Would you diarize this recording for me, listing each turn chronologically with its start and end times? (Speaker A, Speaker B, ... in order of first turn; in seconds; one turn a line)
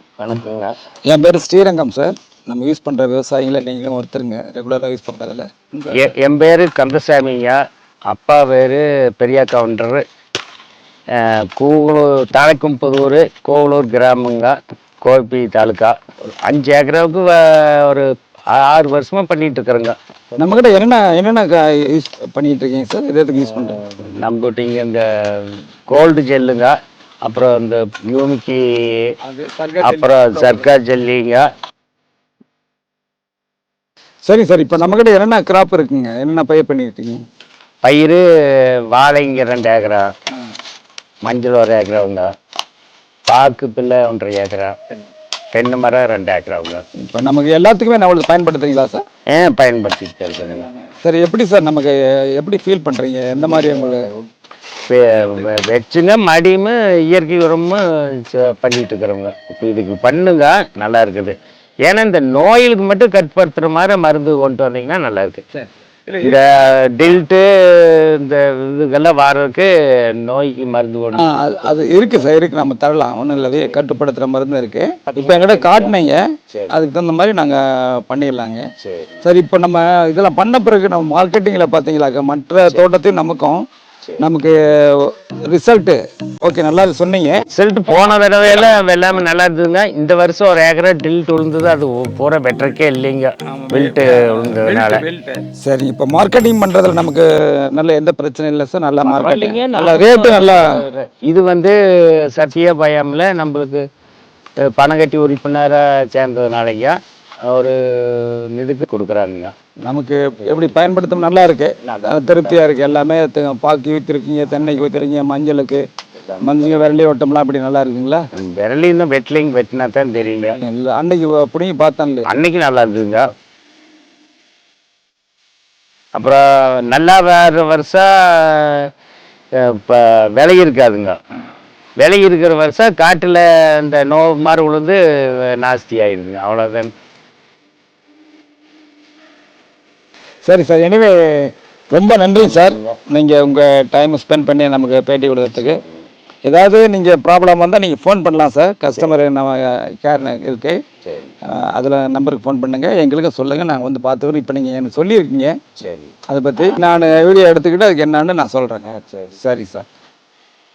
Speaker A: 0.2-0.8
Speaker B: 1.1-6.1
Speaker A: 5.9-10.0
Speaker A: 11.1-19.9
Speaker B: 20.4-23.8
Speaker A: 24.0-26.7
Speaker A: 27.2-29.1
Speaker B: 29.2-30.7
Speaker A: 29.8-31.5
Speaker B: 34.2-37.2
Speaker A: 37.8-40.1
Speaker A: 41.2-42.3
Speaker A: 43.3-44.8
Speaker A: 45.5-46.8
Speaker B: 47.0-49.0
Speaker A: 49.3-50.7
Speaker B: 51.0-54.1
Speaker A: 54.9-65.5
Speaker B: 66.1-66.4
Speaker A: 66.2-71.3
Speaker B: 71.1-78.6
Speaker B: 79.2-83.6
Speaker B: 84.2-87.4
Speaker A: 87.5-95.0
Speaker B: 93.5-100.7
Speaker A: 99.0-103.8
Speaker A: 104.6-109.5
Speaker B: 109.8-118.2
Speaker A: 118.3-120.6
Speaker B: 120.6-122.3
Speaker A: 122.2-123.3
Speaker A: 126.1-128.9
Speaker A: 129.5-131.2
Speaker A: 132.0-136.9
Speaker B: 140.4-145.8
Speaker B: 146.4-150.8
Speaker B: 151.4-155.6
Speaker A: 155.8-156.1
Speaker B: 156.3-159.8